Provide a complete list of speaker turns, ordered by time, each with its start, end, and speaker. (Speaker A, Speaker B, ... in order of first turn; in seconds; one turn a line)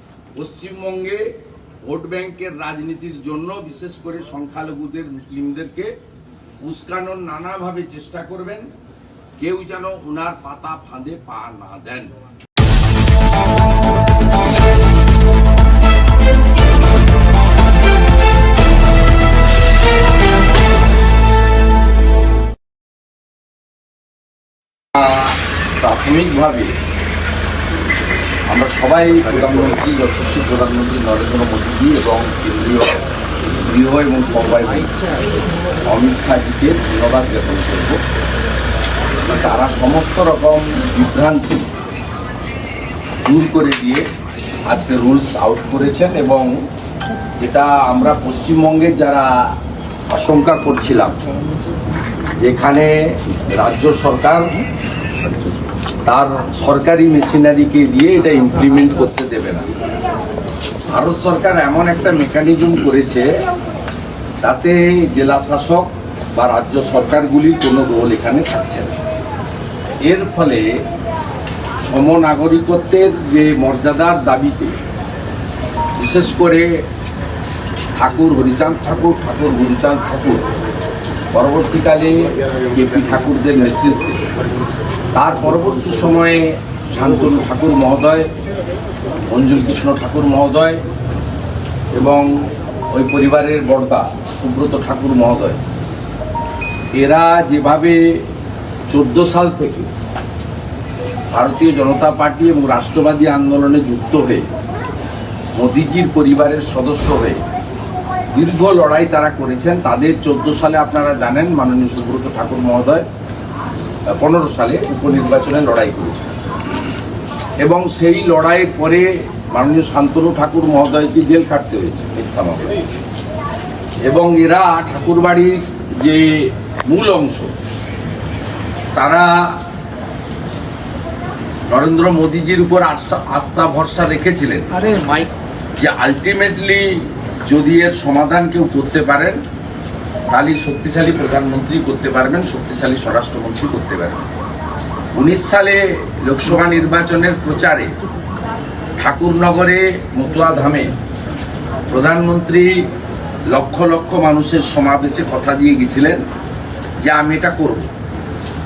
Speaker A: 0.4-5.9
Speaker A: 6.6-8.7
Speaker A: 9.4-12.1
Speaker A: 25.0-26.7
Speaker A: 28.5-33.0
Speaker A: 33.6-35.0
Speaker A: 35.9-38.0
Speaker A: 39.2-41.7
Speaker A: 43.2-44.1
Speaker A: 44.7-46.6
Speaker A: 47.4-49.5
Speaker A: 50.1-51.2
Speaker A: 52.4-53.0
Speaker A: 53.6-54.5
Speaker A: 56.1-59.7
Speaker A: 60.9-63.3
Speaker A: 64.4-69.0
Speaker A: 70.0-70.7
Speaker A: 71.8-74.8
Speaker A: 76.0-76.8
Speaker A: 78.0-80.5
Speaker A: 81.3-84.2
Speaker A: 85.1-88.3
Speaker A: 89.3-90.8
Speaker A: 91.9-92.3
Speaker A: 92.9-95.6
Speaker A: 96.9-98.2
Speaker A: 98.9-99.9
Speaker A: 101.3-104.5
Speaker A: 105.6-107.4
Speaker A: 108.3-113.1
Speaker A: 114.1-116.3
Speaker A: 117.6-122.7
Speaker A: 124.0-127.5
Speaker A: 128.9-129.6
Speaker A: 131.7-134.7
Speaker A: 135.8-139.4
Speaker A: 140.3-144.3
Speaker A: 145.2-147.9
Speaker A: 149.0-150.9
Speaker A: 151.9-152.9
Speaker A: 153.5-156.2
Speaker A: 157.0-157.9